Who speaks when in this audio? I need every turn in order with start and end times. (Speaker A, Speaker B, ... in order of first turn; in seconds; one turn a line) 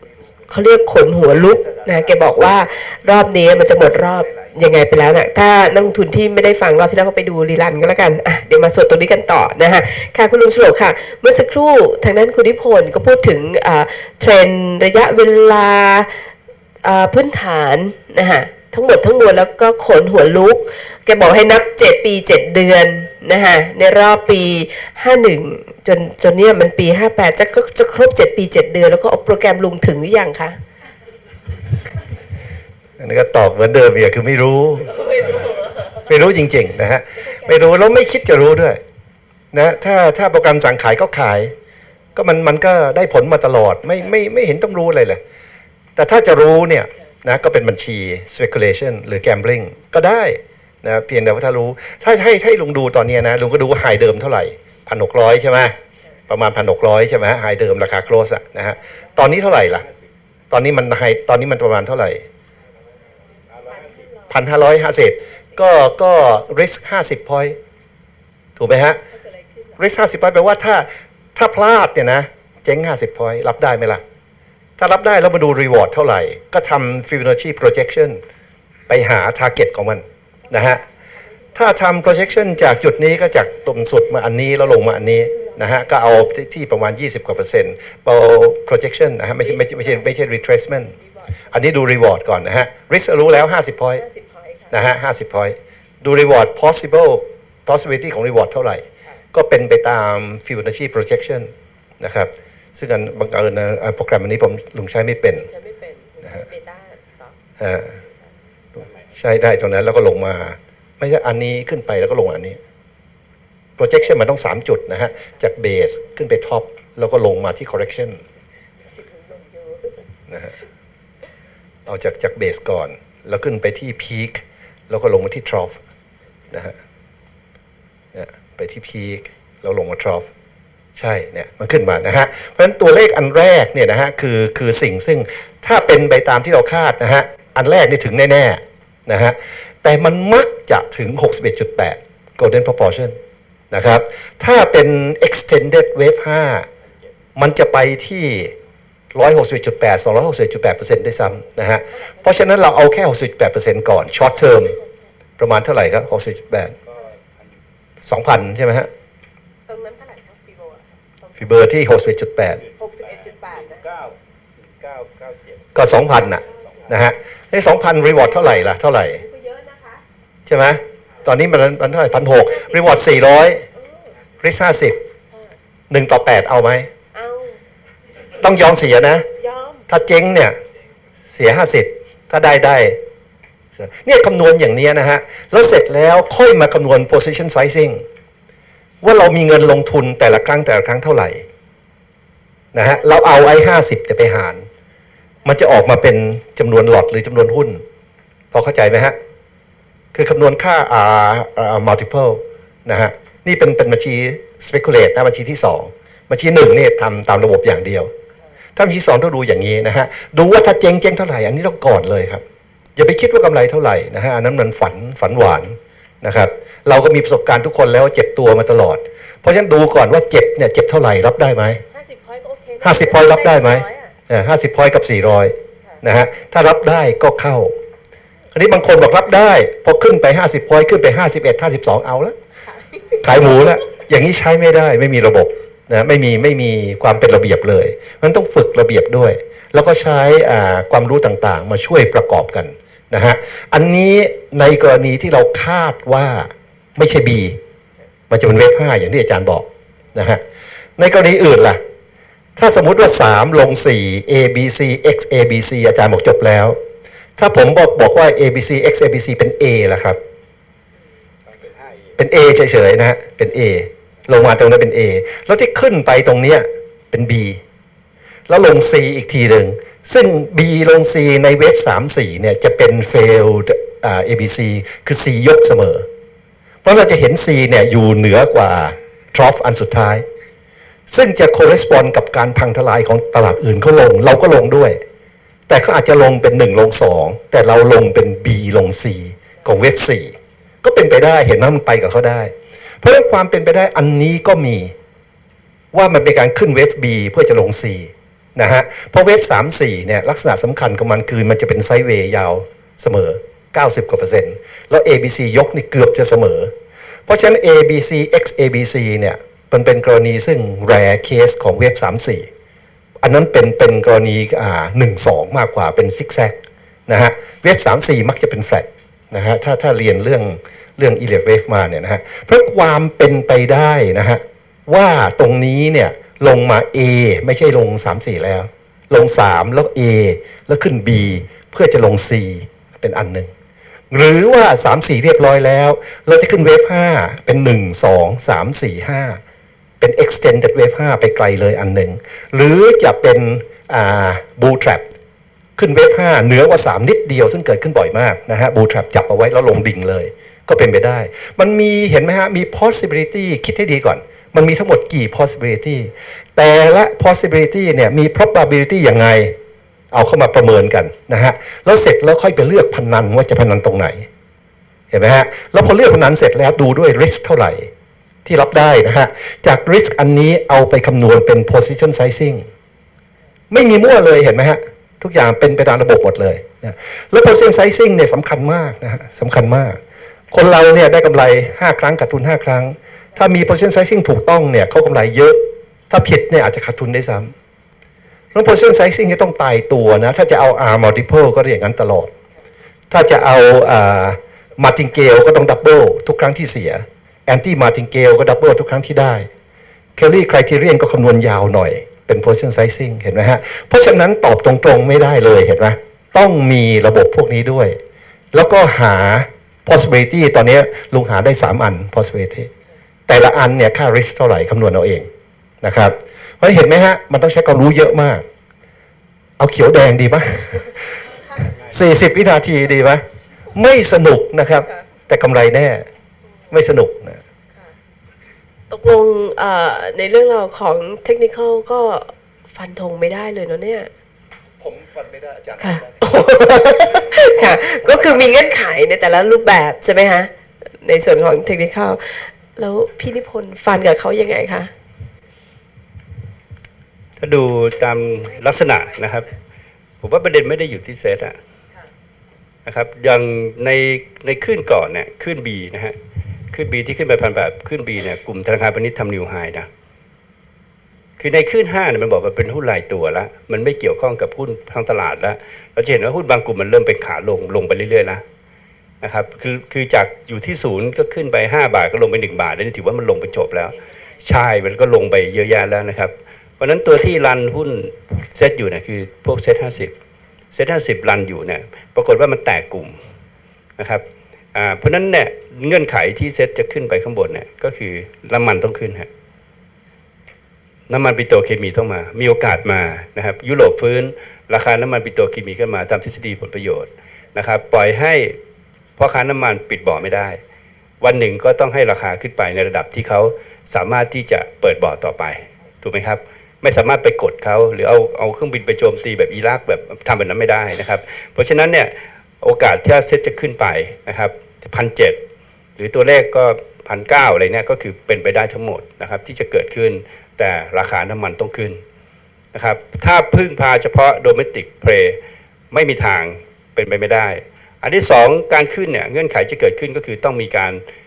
Speaker A: 0.5-16.1
Speaker A: 16.8-30.6
Speaker B: 33.0-38.8
Speaker A: 34.9-36.0
Speaker B: 39.5-41.5
Speaker B: 42.1-45.2
Speaker B: 46.0-55.7
Speaker B: 56.3-59.8
Speaker B: 60.5-62.2
Speaker A: 63.3-64.4
Speaker B: 64.3-67.6
Speaker B: 68.6-69.0
Speaker A: 69.1-69.8
Speaker B: 69.8-74.0
Speaker B: 74.8-78.2
Speaker B: 78.9-80.8
Speaker A: 80.5-81.7
Speaker B: 81.5-90.9
Speaker A: 85.2-86.0
Speaker A: 89.4-90.2
Speaker A: 90.8-91.5
Speaker B: 91.5-94.0
Speaker A: 93.9-94.8
Speaker B: 94.7-105.5
Speaker A: 105.3-107.4
Speaker B: 107.6-107.9
Speaker B: 109.2-112.6
Speaker B: 113.8-118.2
Speaker A: 118.8-120.0
Speaker B: 121.8-125.8
Speaker B: 126.5-126.8
Speaker B: 128.1-130.3
Speaker B: 131.0-143.2
Speaker B: 143.7-146.7
Speaker B: 147.3-148.6
Speaker B: 149.1-154.7
Speaker A: 151.9-152.5
Speaker B: 155.4-156.7
Speaker C: 156.9-157.5
Speaker B: 158.0-158.9
Speaker A: 159.7-161.5
Speaker B: 161.4-162.6
Speaker A: 162.8-163.8
Speaker C: 163.0-165.8
Speaker B: 165.7-169.2
Speaker A: 169.1-170.0
Speaker B: 170.5-173.6
Speaker A: 172.2-172.9
Speaker A: 173.7-174.1
Speaker B: 174.4-175.0
Speaker B: 175.9-176.9
Speaker A: 177.1-177.6
Speaker B: 178.4-179.3
Speaker A: 179.4-179.8
Speaker B: 179.9-180.6
Speaker B: 181.3-183.0
Speaker B: 183.8-188.0
Speaker B: 189.0-191.4
Speaker B: 192.7-194.7
Speaker B: 195.4-197.8
Speaker B: 198.5-199.2
Speaker B: 200.1-208.1
Speaker B: 208.8-212.4
Speaker B: 212.9-221.8
Speaker A: 221.9-224.1
Speaker B: 222.8-227.7
Speaker B: 228.5-232.3
Speaker A: 232.7-233.2
Speaker B: 233.2-247.6
Speaker B: 248.3-250.4
Speaker B: 251.0-251.8
Speaker B: 252.6-256.8
Speaker B: 257.4-260.2
Speaker C: 261.5-262.1
Speaker B: 262.2-267.6
Speaker B: 268.5-276.1
Speaker B: 276.8-280.2
Speaker B: 281.1-285.0
Speaker B: 285.7-294.9
Speaker B: 295.9-306.7
Speaker B: 307.3-312.5
Speaker B: 313.2-333.5
Speaker B: 334.1-339.4
Speaker B: 340.0-345.1
Speaker B: 345.8-359.5
Speaker B: 360.1-364.3
Speaker B: 365.1-367.9
Speaker B: 368.4-372.7
Speaker B: 373.7-380.0
Speaker B: 380.5-387.5
Speaker B: 388.5-392.3
Speaker B: 393.1-399.5
Speaker B: 400.2-408.0
Speaker B: 408.5-412.7
Speaker B: 413.3-415.3
Speaker B: 415.8-418.4
Speaker B: 419.6-421.0
Speaker B: 421.6-423.2
Speaker B: 423.7-426.1
Speaker B: 426.7-427.4
Speaker A: 428.9-434.1
Speaker B: 435.0-436.0
Speaker A: 435.8-440.5
Speaker A: 441.0-444.9
Speaker C: 447.4-449.5
Speaker C: 450.2-451.6
Speaker C: 452.9-456.1
Speaker C: 456.7-459.9
Speaker C: 461.4-468.4
Speaker C: 469.2-480.1
Speaker C: 480.7-483.2
Speaker C: 484.0-489.3
Speaker C: 491.1-498.6
Speaker C: 499.2-500.6
Speaker C: 501.2-515.4
Speaker C: 516.0-522.0
Speaker C: 522.7-525.4
Speaker C: 525.9-531.0